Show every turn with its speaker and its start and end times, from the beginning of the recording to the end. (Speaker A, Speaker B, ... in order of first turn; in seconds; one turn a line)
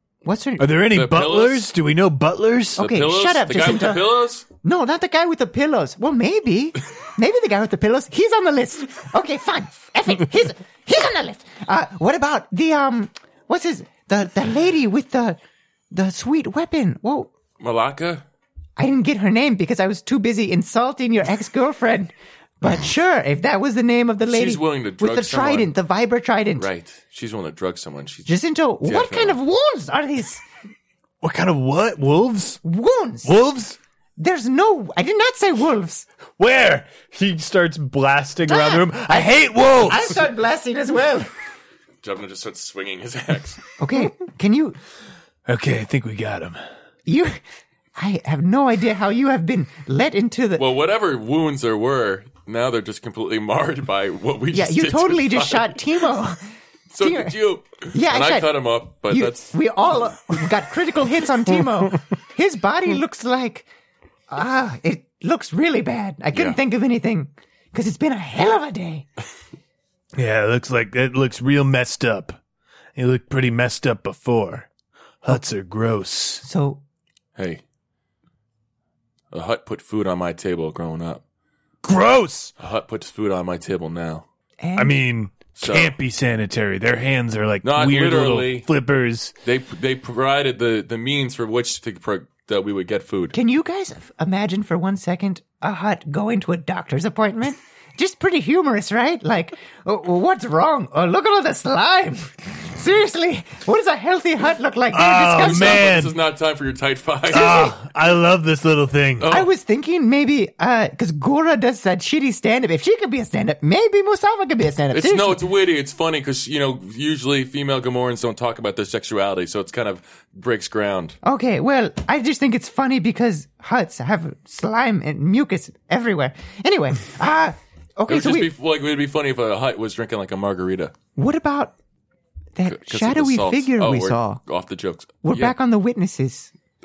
Speaker A: 0.2-0.8
Speaker B: 0.6-2.8
Speaker C: 0.9-1.7
Speaker C: 2.8-4.5
Speaker A: 2.8-15.4
Speaker A: 15.9-17.3
Speaker C: 17.6-18.2
Speaker A: 18.8-26.7
Speaker C: 24.2-25.7
Speaker C: 26.6-29.4
Speaker A: 28.2-30.4
Speaker B: 31.2-32.6
Speaker A: 32.6-33.4
Speaker B: 33.2-33.8
Speaker A: 34.2-36.1
Speaker B: 36.4-40.2
Speaker A: 38.5-41.3
Speaker C: 42.0-43.7
Speaker A: 43.8-44.8
Speaker B: 45.5-46.6
Speaker A: 47.0-47.4
Speaker A: 47.9-50.6
Speaker C: 50.6-55.8
Speaker A: 54.5-56.4
Speaker C: 56.9-59.6
Speaker A: 57.0-57.3
Speaker A: 57.9-58.6
Speaker A: 59.1-63.7
Speaker A: 64.3-69.1
Speaker B: 70.2-72.4
Speaker B: 73.0-74.7
Speaker B: 75.2-76.4
Speaker A: 76.4-76.8
Speaker C: 77.3-77.6
Speaker C: 79.3-81.2
Speaker B: 81.8-82.5
Speaker C: 82.6-84.2
Speaker A: 84.6-85.0
Speaker B: 84.8-89.3
Speaker C: 85.5-85.9
Speaker C: 87.6-88.7
Speaker C: 89.4-93.3
Speaker A: 93.3-105.9
Speaker B: 104.9-106.1
Speaker C: 105.4-107.7
Speaker A: 107.3-107.8
Speaker B: 107.3-109.3
Speaker C: 109.2-109.5
Speaker A: 109.3-115.4
Speaker C: 114.9-121.2
Speaker A: 121.2-128.5
Speaker C: 128.1-130.9
Speaker A: 131.2-131.7
Speaker A: 132.6-134.4
Speaker C: 132.7-135.5
Speaker A: 135.2-136.5